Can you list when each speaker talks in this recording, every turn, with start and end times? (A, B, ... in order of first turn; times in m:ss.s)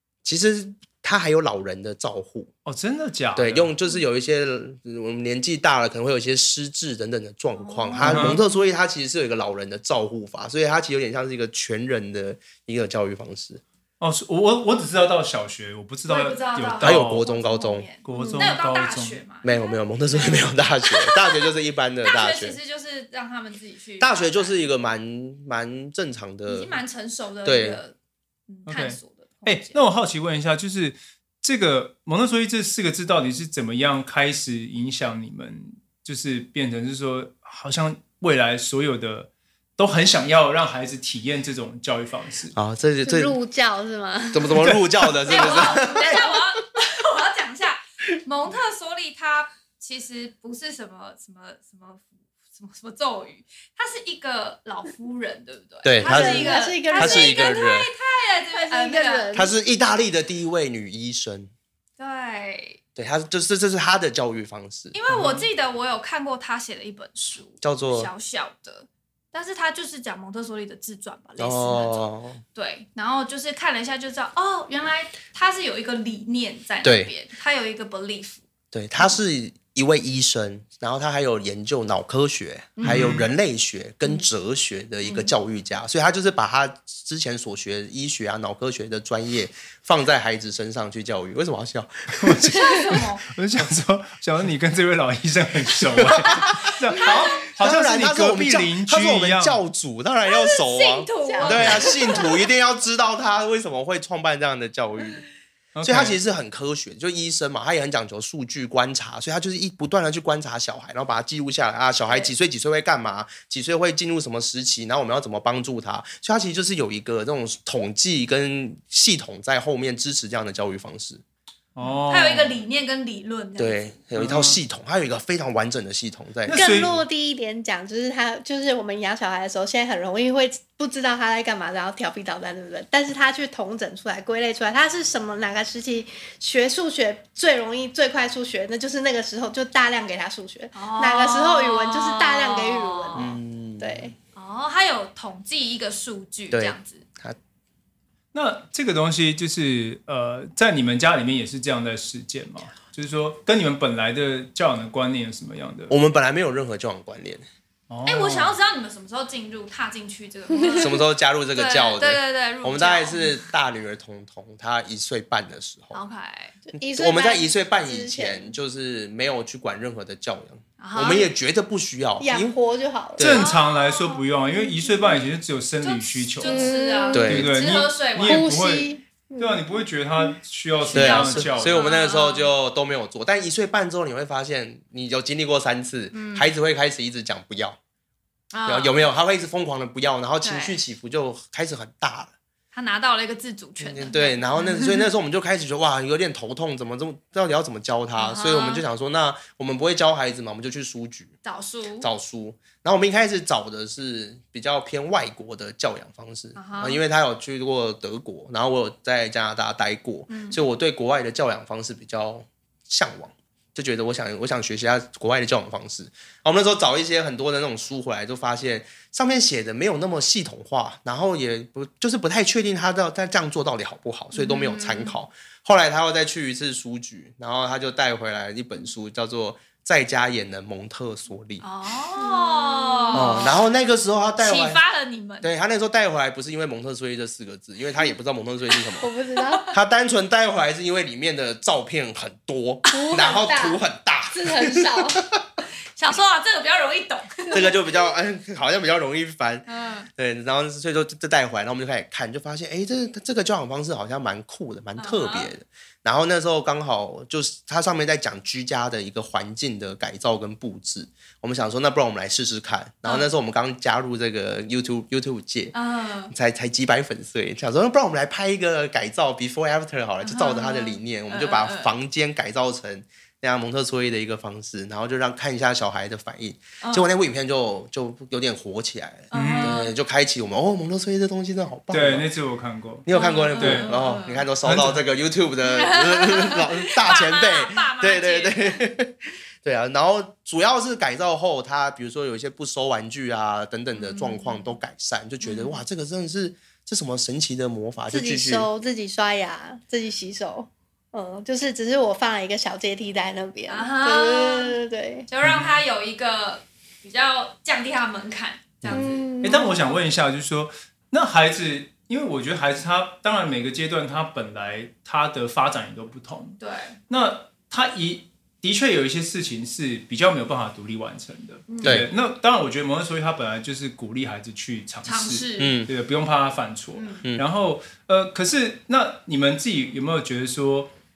0:00.2-0:02.5 A
0:02.6-0:03.7 B
0:03.4-0:13.6 A
0:07.6-0:08.4 C
0:08.0-0:08.4 B
0:14.0-0:17.2 B
0:16.1-0:21.4 C
0:16.8-0:17.9 A
0:18.0-0:19.2 B
0:18.1-0:18.4 D
0:19.4-0:22.6 A
0:22.0-0:24.6 C
0:24.0-0:26.8 A
0:26.5-0:27.9 C
0:27.4-0:27.8 A
0:28.5-0:29.8 C
0:28.7-0:42.6 B
0:42.5-0:43.3 A
0:43.0-0:44.6 D
0:44.3-0:46.2 A
0:44.6-0:45.1 B
0:45.3-0:46.2 D
0:45.3-0:59.3 C
0:55.8-0:57.9 A
0:56.0-0:57.6 D
0:58.5-0:59.5 D
0:59.3-1:01.5 A
1:02.0-1:02.8 C
1:03.0-1:04.9 A
1:04.9-1:18.4 C
1:05.1-1:05.5 B
1:07.6-1:08.1 A
1:11.4-1:12.4 A
1:16.8-1:17.1 A
1:18.7-1:32.8 A
1:22.8-1:23.1 C
1:22.8-1:23.3 B
1:25.0-1:25.3 C
1:32.2-1:39.6 B
1:32.5-1:33.2 C
1:36.0-1:45.2 A
1:37.0-1:37.4 C
1:40.2-1:42.3 C
1:41.2-1:42.4 D
1:45.7-1:46.2 B
1:45.8-2:01.2 A
1:52.1-1:52.3 C
2:01.7-2:02.6 B
2:01.8-2:03.8 C
2:03.6-2:07.0 A
2:04.2-2:04.6 B
2:06.4-2:06.9 B
2:06.5-2:23.3 D
2:20.7-2:23.4 C
2:23.1-2:24.1 A
2:23.8-2:24.1 D
2:24.3-2:27.0 C
2:26.5-2:27.4 A
2:28.3-2:35.9 B
2:35.9-2:37.4 A
2:37.9-2:38.6 B
2:38.0-2:41.0 C
2:40.7-2:46.0 A
2:41.5-2:43.4 C
2:45.9-2:46.6 C
2:46.7-2:52.5 A
2:46.8-2:48.6 D
2:50.8-2:51.3 C
2:52.2-2:53.3 D
2:53.2-2:53.4 A
2:53.2-2:56.7 B
2:53.3-2:54.2 C
2:55.8-2:58.5 C
2:56.4-2:57.3 D
2:57.1-2:57.5 A
2:57.2-3:01.8 B
2:58.2-3:00.3 D
3:00.8-3:02.5 C
3:00.9-3:07.8 A
3:06.1-3:06.5 C
3:08.5-3:09.0 C
3:08.6-3:12.3 A
3:10.4-3:10.8 C
3:12.7-3:15.1 C
3:13.8-3:21.3 A
3:18.2-3:18.8 C
3:21.4-3:22.1 C
3:22.0-3:51.6 A
3:26.6-3:27.0 C
3:30.3-3:30.6 C
3:44.3-3:45.1 C
3:51.6-3:53.6 C
3:52.2-3:53.4 D
3:53.1-3:54.8 A
3:54.4-3:55.5 C
3:55.4-3:59.1 A
3:59.0-3:59.7 D
3:59.7-4:05.1 A
4:02.8-4:03.5 C
4:02.9-4:03.8 D
4:04.3-4:05.3 D
4:05.9-4:07.7 C
4:07.5-4:07.7 D
4:07.5-4:25.7 A
4:09.7-4:10.1 C
4:15.0-4:15.5 C
4:23.0-4:23.3 C
4:25.7-4:26.3 C
4:26.3-4:42.3 A
4:30.2-4:31.9 C
4:36.8-4:37.1 C
4:39.3-4:39.9 C
4:39.3-4:39.8 B
4:41.9-4:43.1 B
4:43.0-4:58.7 A
4:43.1-4:44.4 C
4:43.6-4:43.9 B
4:44.6-4:45.0 B
4:45.7-4:48.8 C
4:54.0-4:54.7 C
4:55.4-4:55.8 C
4:58.1-5:05.3 D
5:03.7-5:04.8 C
5:05.3-5:09.2 C
5:05.4-5:05.8 B
5:08.8-5:09.1 A
5:08.9-5:09.8 D
5:09.4-5:16.6 B
5:16.6-5:17.0 C
5:17.1-5:30.9 B
5:21.7-5:22.0 C
5:21.8-5:22.1 A
5:25.0-5:25.8 C
5:25.6-5:25.9 A
5:27.0-5:27.2 C